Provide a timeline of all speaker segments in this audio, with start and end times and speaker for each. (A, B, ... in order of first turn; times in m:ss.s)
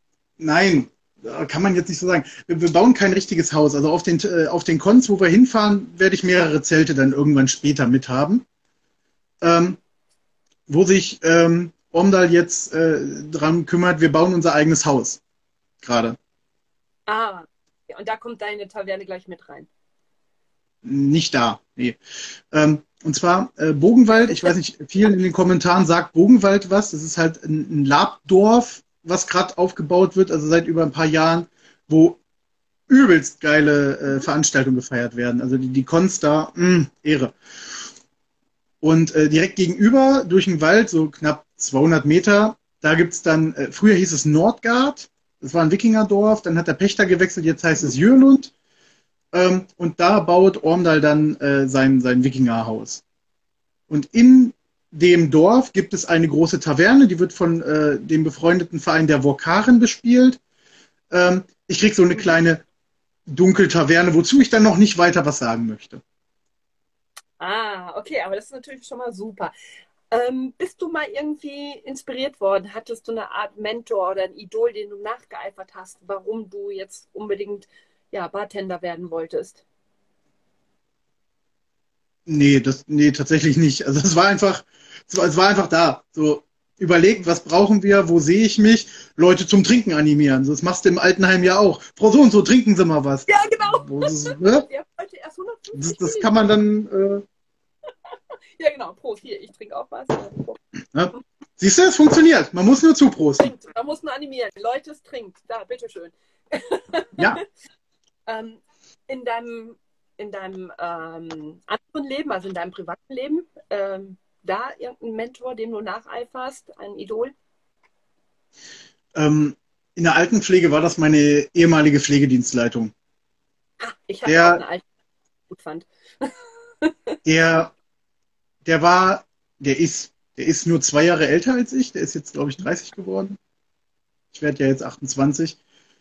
0:00.4-0:08.4 A
0:09.4-0:09.8 A
0:10.7-0:15.2 A
0:15.8-0:16.2 A
0:17.1-0:19.7 B
0:20.8-0:22.0 A
0:22.5-0:32.2 A
0:32.9-0:37.3 A
0:38.8-0:48.5 A
0:49.3-0:53.0 A
0:53.9-1:00.4 A
1:01.1-1:02.6 A
1:03.3-1:06.0 A
1:07.4-1:09.5 B
1:10.1-1:19.6 B
1:22.3-1:34.6 A
1:33.3-1:36.4 B
1:35.7-1:37.2 A
1:38.6-1:40.6 B
1:40.9-1:43.5 A
1:43.4-1:47.4 B
1:48.3-1:57.3 B
1:59.1-2:02.9 A
2:03.8-2:04.8 B
2:04.2-2:04.6 A
2:05.5-2:07.2 B
2:07.2-2:07.7 A
2:08.6-2:13.4 A
2:14.3-2:15.6 A